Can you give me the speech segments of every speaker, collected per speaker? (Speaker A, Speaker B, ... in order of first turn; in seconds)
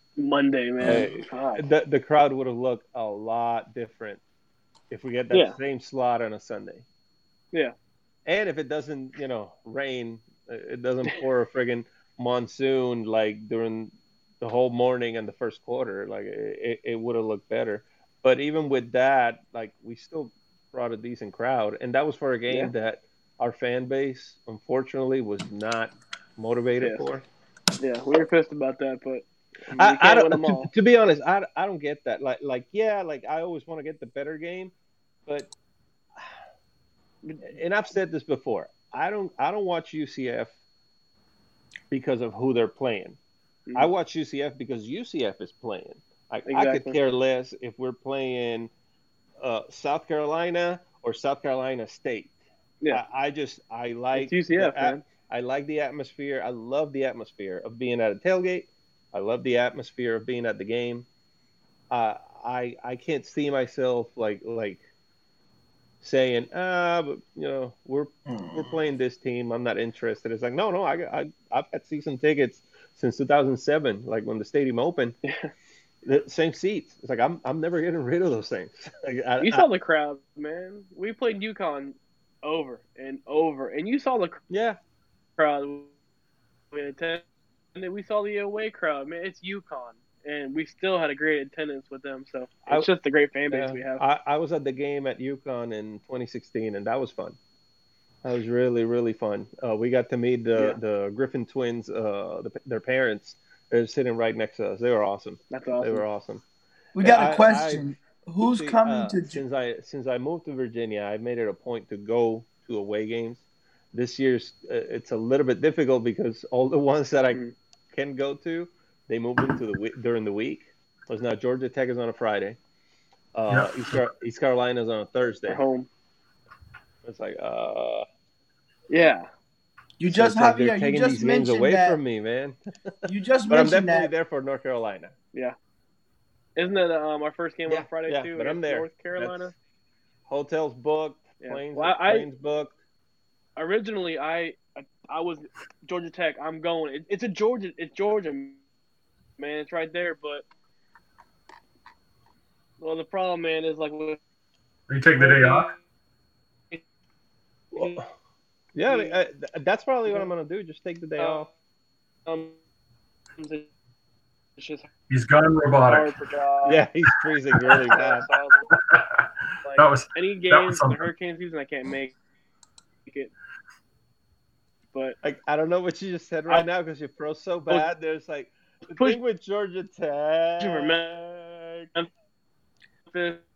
Speaker A: 0.2-1.6, 5.3-5.6, 26.8-27.1, 27.8-30.7, 37.2-37.5, 46.5-47.0, 54.1-55.0, 79.4-84.4, 85.4-85.9, 86.7-87.2, 87.8-94.0, 105.5-106.0, 125.5-125.9, 128.9-129.3, 136.6-139.5, 141.4-142.3, 143.6-148.6, 149.4-150.4, 152.8-154.2, 155.2-155.8, 157.7-158.0, 158.9-159.2, 161.2-161.5, 162.3-162.6, 163.4-163.7, 164.6-164.9, 165.8-166.8, 167.6-168.7, 169.6-172.2, 173.1-173.3, 178.9-179.2, 180.6-182.1, 183.1-183.4
Speaker B: 0.8-4.2, 4.9-6.8, 8.3-27.2, 29.8-34.7, 35.3-35.5, 37.5-40.5, 41.9-43.2, 43.8-48.7, 49.4-52.4, 52.9-61.1, 61.9-64.8, 66.0-75.2, 76.0-79.7, 84.5-84.8, 93.5-97.4, 98.2-106.4, 107.0-107.8, 108.5-122.6, 123.3-125.6, 127.0-128.1, 130.1-132.9, 133.5-135.1, 137.7-139.5, 140.3-142.8, 157.7-158.1, 158.7-161.5, 166.6-168.3, 175.2-181.0
Speaker C: 107.0-109.4, 130.0-132.0, 133.1-134.1
Speaker D: 123.5-124.0, 154.9-155.7, 165.1-166.1, 168.7-171.1